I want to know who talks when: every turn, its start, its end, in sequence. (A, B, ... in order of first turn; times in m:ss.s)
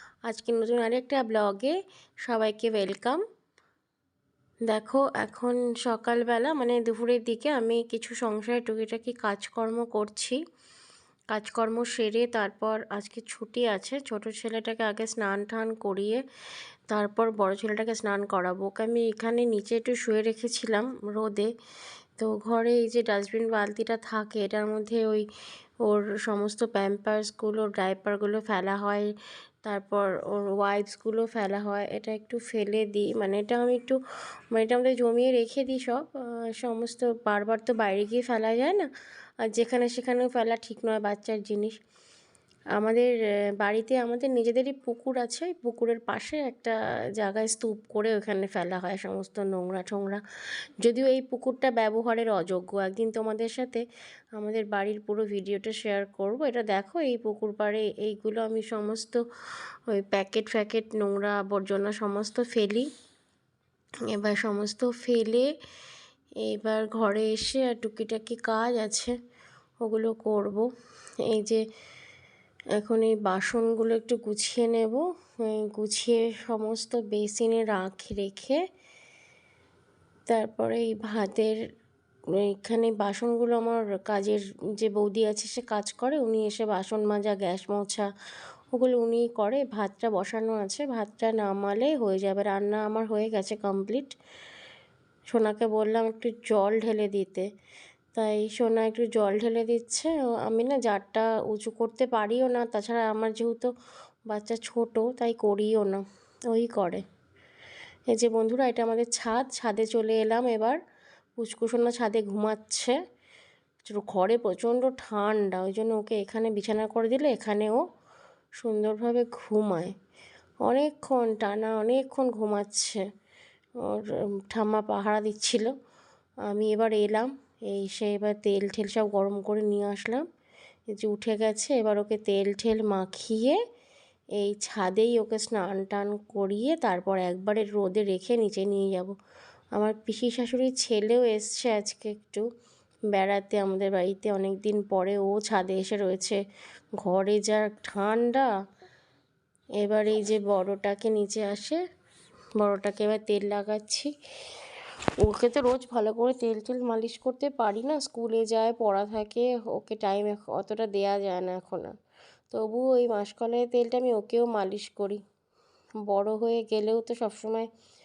0:00.3-0:03.2 A
0:04.7-0:10.4 A
0:11.3-0:16.2 A
0:16.9-0:21.5 A
0:22.2-0:25.2 A
0:25.8-0:29.1 A
0:29.6-0:34.0 A
0:34.5-0:38.9 A
0:39.5-0:41.8 A
0:42.8-0:50.2 A
0:50.8-0:53.8 A
0:54.4-0:59.2 A
0:59.9-1:02.9 A
1:04.1-1:05.5 A
1:06.4-1:09.2 A
1:09.8-1:10.7 A
1:11.2-1:11.6 A
1:12.8-1:18.6 A
1:20.3-1:21.6 A
1:22.4-1:28.1 A
1:28.7-1:34.1 A
1:35.3-1:37.5 A
1:38.1-1:43.7 A
1:44.3-1:47.0 A
1:48.1-1:50.8 A
1:51.4-1:52.9 A
1:53.9-1:57.8 A
1:58.6-1:59.9 A
2:00.6-2:03.0 A
2:03.8-2:05.7 A
2:06.5-2:10.2 A
2:10.9-2:13.6 A
2:14.4-2:19.1 A
2:19.7-2:22.5 A
2:23.1-2:26.4 A
2:27.0-2:28.5 A
2:29.8-2:31.8 A
2:32.6-2:34.1 A
2:35.2-2:41.9 A
2:42.5-2:45.2 A
2:46.0-2:47.7 A